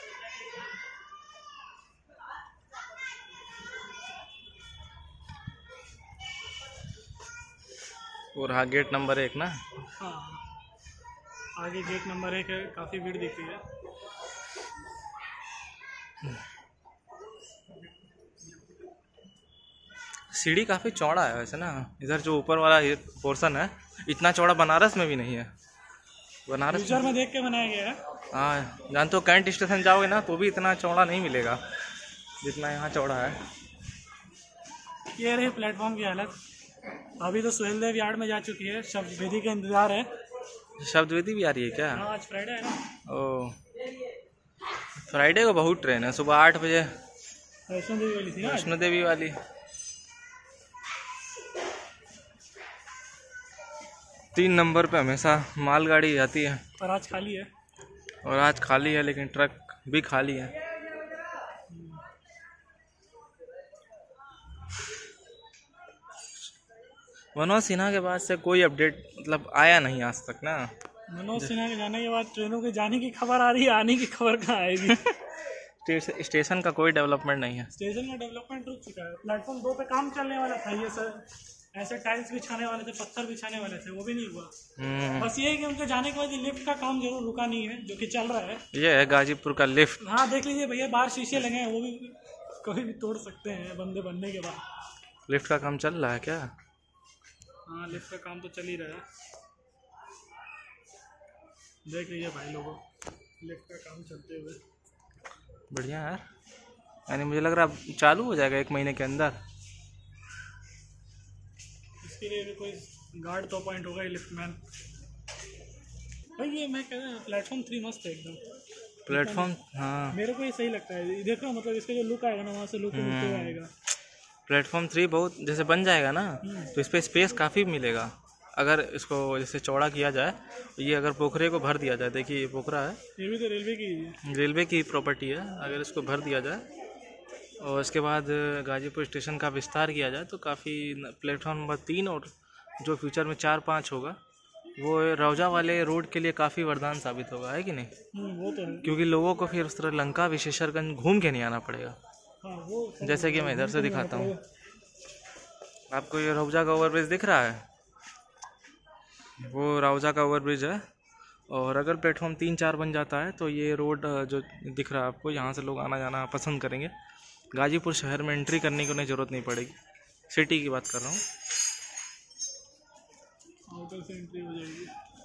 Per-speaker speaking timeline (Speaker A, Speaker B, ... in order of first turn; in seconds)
Speaker A: 8.3-9.6, 20.3-25.5, 26.5-27.1, 28.3-31.6, 32.4-33.4, 40.8-42.0, 43.1-43.5, 45.0-46.9, 48.4-49.4, 54.3-56.6, 58.2-60.5, 67.3-70.7, 74.9-75.2, 75.8-77.7, 84.8-85.3, 88.7-90.0, 95.3-96.5, 105.7-106.2, 107.1-109.4, 119.1-120.2, 122.9-123.6, 124.5-133.0, 134.2-136.6, 137.6-144.2, 144.8-147.9, 148.8-152.0, 153.0-154.3, 155.9-157.6, 159.4-160.8, 161.5-166.9, 167.5-169.7, 170.3-171.2
Speaker B: 10.0-10.4, 11.6-13.6, 26.7-28.0, 35.2-36.3, 37.2-40.1, 41.9-42.8, 47.7-48.7, 56.8-57.5, 61.7-62.0, 71.1-75.0, 77.7-84.5, 85.2-88.6, 90.0-94.6, 97.7-99.0, 101.9-102.8, 103.4-104.6, 112.0-114.6, 116.4-118.4, 119.1-119.5, 120.1-123.7, 126.4-126.7, 133.2-134.2, 148.1-148.9, 152.4-154.4, 173.7-174.9